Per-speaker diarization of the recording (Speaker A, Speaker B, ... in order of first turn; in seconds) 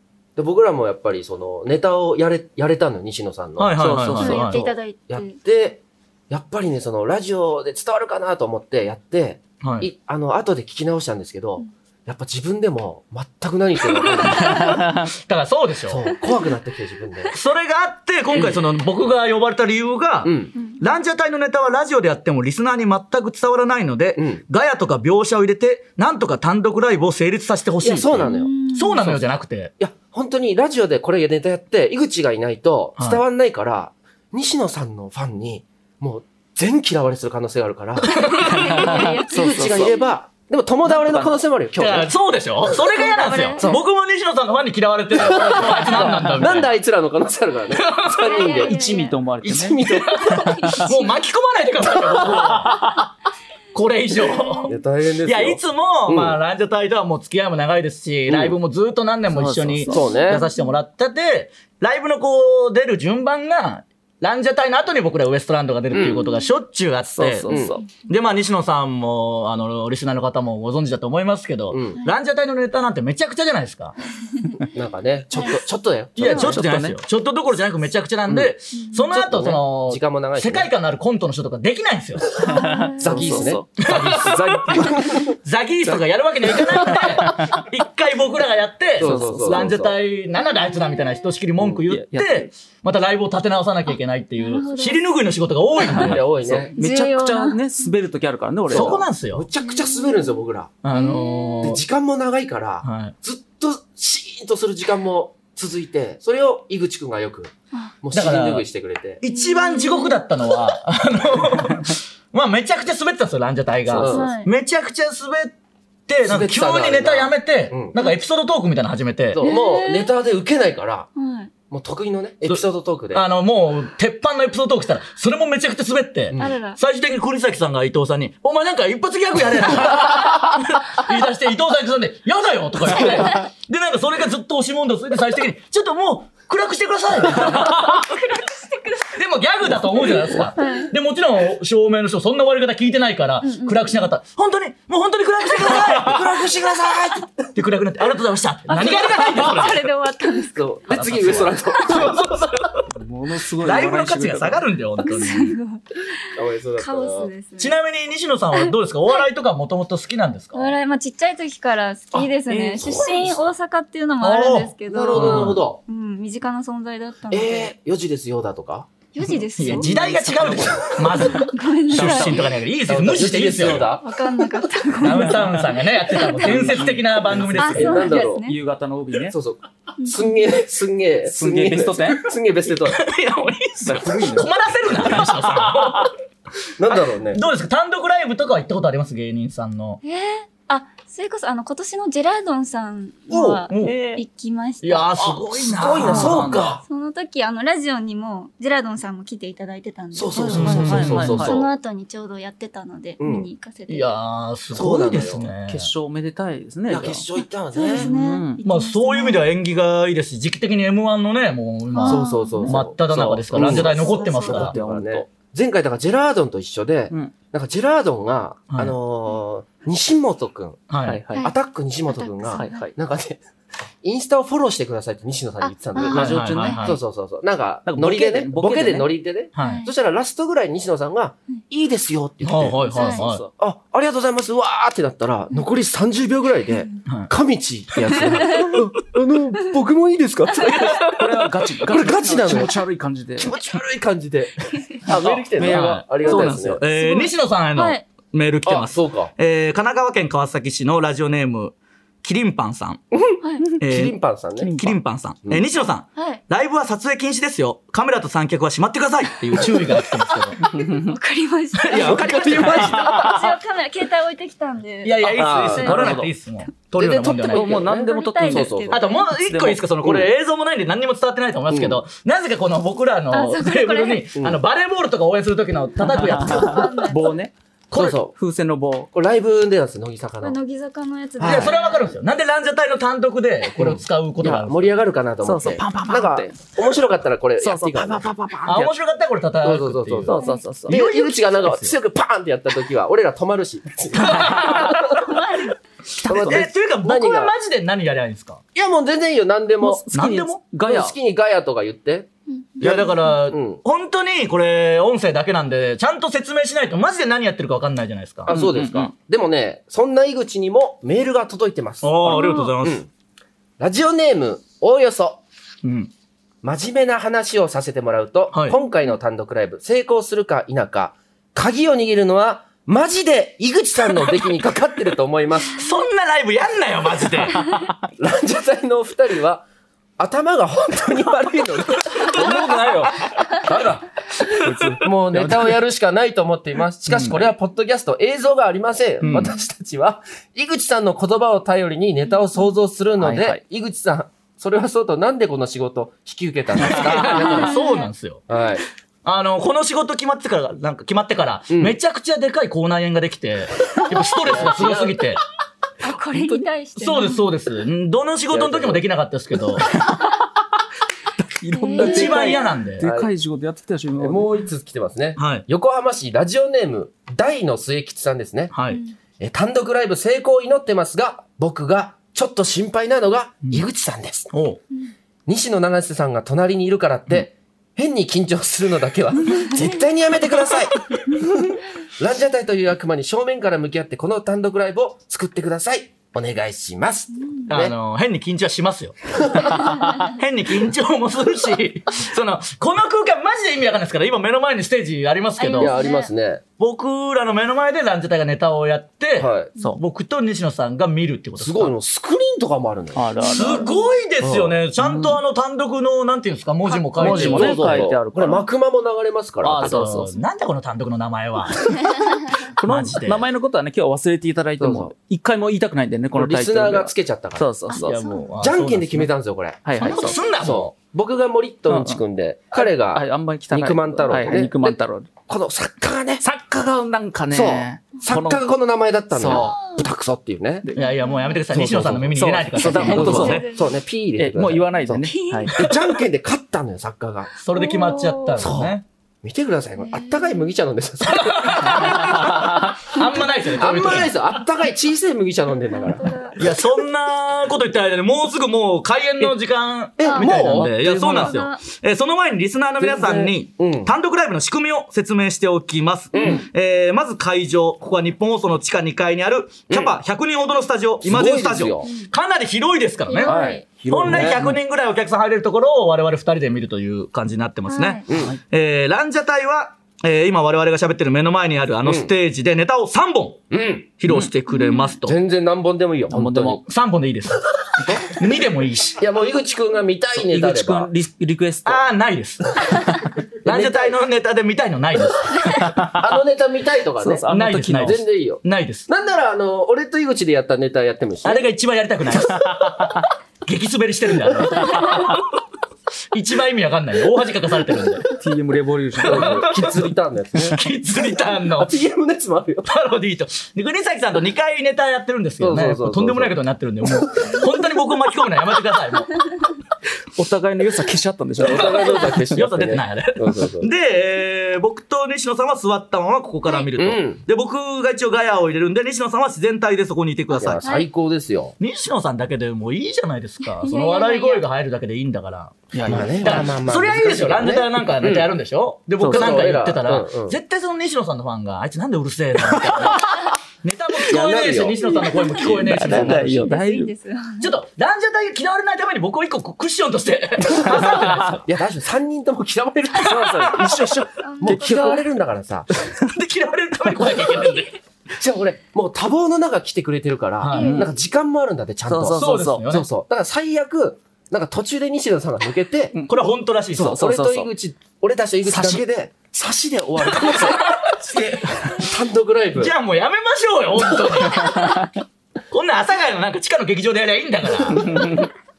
Speaker A: 0.4-3.8, 4.3-14.8, 15.9-17.3, 18.3-18.6, 20.2-20.5, 24.1-24.4, 27.8-28.6, 29.8-38.3, 39.3-42.1, 45.1-48.8, 49.4-50.6, 54.7-56.4, 58.3-58.6, 59.9-60.5, 65.9-66.2, 67.5-67.8, 71.7-72.0, 74.7-76.5, 78.3-78.5, 79.1-80.7, 83.0-85.3, 89.0-90.0, 96.0-96.7, 98.7-100.7, 101.6-109.2, 113.8-114.3, 116.2-118.0, 119.3-121.1, 121.7-123.2, 145.8-147.3, 150.6-152.3, 156.4-157.3, 162.1-163.5, 164.9-165.8, 167.3-168.9, 170.4-171.0, 172.9-174.1, 177.7-178.5, 179.3-183.0, 186.8-187.4, 193.3-193.6, 195.7-196.8, 200.1-201.7, 203.2-203.5, 204.7-205.5, 206.9-208.1, 212.0-220.8, 221.4-223.4, 224.0-241.0, 241.9-242.7, 243.4-246.9, 248.6-249.3, 253.1-255.7, 261.9-263.3, 265.4-266.2, 267.0-269.0, 270.0-270.3, 271.7-272.0, 274.4-274.6, 277.9-278.4, 279.1-280.6, 281.4-281.7, 283.8-288.3, 289.6-295.1, 296.3-297.5, 298.8-300.0, 300.8-302.3, 302.8-303.8, 308.5-313.1, 313.8-315.4, 316.6-325.8, 328.2-329.6, 330.2-334.2, 335.0-347.8, 348.5-348.8, 351.7-352.0, 354.3-355.3, 358.5-359.0, 363.0-363.3, 364.2-368.7, 369.4-374.5, 375.5-381.6, 382.2-388.0, 395.8-396.6, 399.4-399.7, 401.6-403.2, 404.4-404.8, 407.2-410.2, 414.8-415.1, 416.3-417.7, 418.6-426.4, 427.5-430.9, 431.7-437.5, 438.6-442.5, 443.8-446.2, 450.2-451.0, 453.0-454.1, 456.3-456.6, 459.9-460.2, 461.2-462.1, 463.4-464.7, 468.3-468.5, 472.0-472.3, 473.7-474.1, 475.2-476.8, 478.0-478.3, 479.2-481.1, 483.6-484.2, 486.1-487.5, 488.0-491.6, 499.2-500.8, 501.8-502.9, 505.6-506.6, 511.6-513.9, 517.0-517.4, 520.5-521.8, 526.1-528.5, 529.3-530.6, 534.2-536.7, 541.0-545.9, 548.4-556.1, 556.9-562.9
Speaker B: 3.6-4.7, 9.6-9.9, 14.1-16.0, 17.3-29.7, 38.3-38.7, 41.8-46.7, 47.7-48.3, 49.4-52.9, 53.7-74.0, 76.2-82.4, 83.8-96.3, 98.7-99.5, 100.8-101.8, 102.8-103.1, 108.1-108.7, 109.2-115.5, 116.1-119.5, 122.5-138.0, 139.1-149.9, 150.9-152.8, 153.6-155.6, 157.6-160.8, 162.6-162.9, 164.2-165.6, 169.6-173.9, 175.0-178.0, 182.8-186.1, 186.9-190.0, 193.7-193.9, 194.8-196.6, 200.5-201.4, 203.9-205.9, 208.6-214.8, 220.9-221.2, 226.1-227.0, 229.5-229.8, 232.4-233.4, 240.7-241.1, 245.6-253.0, 253.8-254.2, 254.8-260.7, 261.8-263.2, 265.0-267.9, 268.9-277.0, 277.9-278.2, 281.4-285.0, 288.6-291.9, 294.1-294.9, 296.3-298.6, 300.1-300.6, 302.8-308.5, 312.0-313.0, 315.8-316.1, 318.5-318.8, 325.7-327.8, 339.2-339.5, 346.8-348.4, 349.2-355.4, 357.0-359.9, 362.0-363.1, 365.4-365.6, 368.7-369.0, 374.5-374.8, 387.7-396.0, 396.8-401.9, 403.5-407.9, 409.8-411.8, 412.8-413.5, 418.0-419.3, 420.0-420.9, 431.0-433.7, 435.7-436.0, 437.6-439.0, 441.2-444.3, 446.6-473.6, 474.2-475.4, 476.8-479.2, 481.9-482.8, 483.6-485.9, 487.5-489.1, 491.4-493.1, 493.6-495.4, 496.3-498.3, 499.2-499.9, 500.6-502.0, 502.9-509.4, 511.6-521.0, 521.8-536.7, 537.6-541.6, 546.2-548.0, 550.6-550.9, 552.4-553.1, 556.3-557.2, 560.4-561.7, 562.8-565.1, 565.7-568.4
Speaker C: 3.8-4.5, 38.5-40.0, 40.8-41.3, 48.3-49.8, 59.3-60.1, 67.1-67.8, 75.3-75.6, 76.3-77.0, 82.4-83.7, 89.0-89.7, 91.8-92.5, 96.0-99.0, 152.9-154.6, 169.7-171.0, 171.9-172.5, 176.4-179.3, 181.2-182.2, 183.9-186.1, 193.8-194.2, 195.7-196.7, 200.3-201.6, 205.5-207.2, 207.9-208.6, 213.6-215.3, 221.0-221.5, 222.5-222.9, 226.1-226.8, 227.9-229.1, 233.1-233.5, 241.1-243.5, 245.1-246.6, 254.6-254.9, 262.5-263.2, 265.9-266.3, 267.5-268.9, 269.4-269.9, 276.4-277.5, 278.3-279.1, 285.4-286.7, 287.6-288.9, 290.3-291.0, 294.3-294.7, 296.2-296.7, 299.8-301.1, 308.5-309.1, 327.6-327.9, 332.4-333.1, 334.5-335.7, 343.2-343.6, 360.0-360.3, 361.5-364.5, 403.1-403.8, 405.0-405.4, 407.1-408.6, 409.6-410.4, 412.6-418.2, 419.9-420.4, 421.9-422.2, 422.7-425.3, 426.4-428.6, 429.4-429.8, 430.8-431.1, 432.3-433.6, 434.4-435.8, 450.6-451.6, 464.3-464.6, 468.3-468.6, 476.3-476.8, 480.4-482.0, 487.2-488.2, 498.4-500.0, 510.4-512.6, 525.9-526.7, 529.2-529.6, 535.8-537.1, 540.8-541.5, 543.2-545.1, 550.7-551.1, 552.0-552.9, 557.0-557.7, 558.6-559.0, 567.9-568.5
Speaker D: 4.1-5.4, 16.2-16.5, 28.2-29.2, 38.1-39.5, 42.8-43.6, 48.1-49.2, 50.4-51.1, 54.1-54.8, 59.9-60.7, 78.8-79.0, 82.5-83.5, 90.4-91.2, 93.9-95.1, 96.7-97.9, 99.6-101.7, 109.2-110.2, 114.0-114.5, 117.9-118.2, 119.4-120.1, 121.2-121.5, 126.4-126.8, 133.1-133.5, 137.3-139.2, 140.6-140.9, 143.4-144.0, 148.7-150.9, 151.6-152.3, 155.0-157.8, 158.5-159.3, 160.5-167.7, 169.1-172.5, 174.0-176.7, 177.6-178.6, 180.0-180.4, 190.0-195.3, 196.0-204.2, 207.4-209.5, 211.9-212.8, 213.6-214.7, 222.1-222.9, 225.6-226.8, 229.6-229.9, 232.9-233.2, 238.2-238.6, 240.6-241.1, 246.2-248.0, 253.4-253.8, 256.1-256.4, 260.9-266.2, 267.7-269.3, 273.3-274.3, 276.1-277.3, 280.4-282.1, 295.0-295.8, 302.5-303.4, 312.3-312.7, 347.4-348.1, 356.0-357.4, 361.7-362.7, 368.9-369.1, 387.4-387.7, 389.6-390.3, 395.6-396.3, 403.4-404.1, 412.1-412.6, 417.9-418.5, 420.2-420.6, 429.5-430.1, 431.0-431.6, 433.1-434.0, 434.9-435.7, 437.7-438.7, 440.0-440.7, 443.2-444.0, 445.9-446.6, 450.2-450.6, 451.3-451.9, 456.4-456.6, 462.0-462.3, 463.2-464.0, 467.9-468.3, 474.7-475.2, 520.8-521.1, 523.6-524.6, 535.2-535.8, 536.6-537.7, 544.4-545.2, 550.7-551.1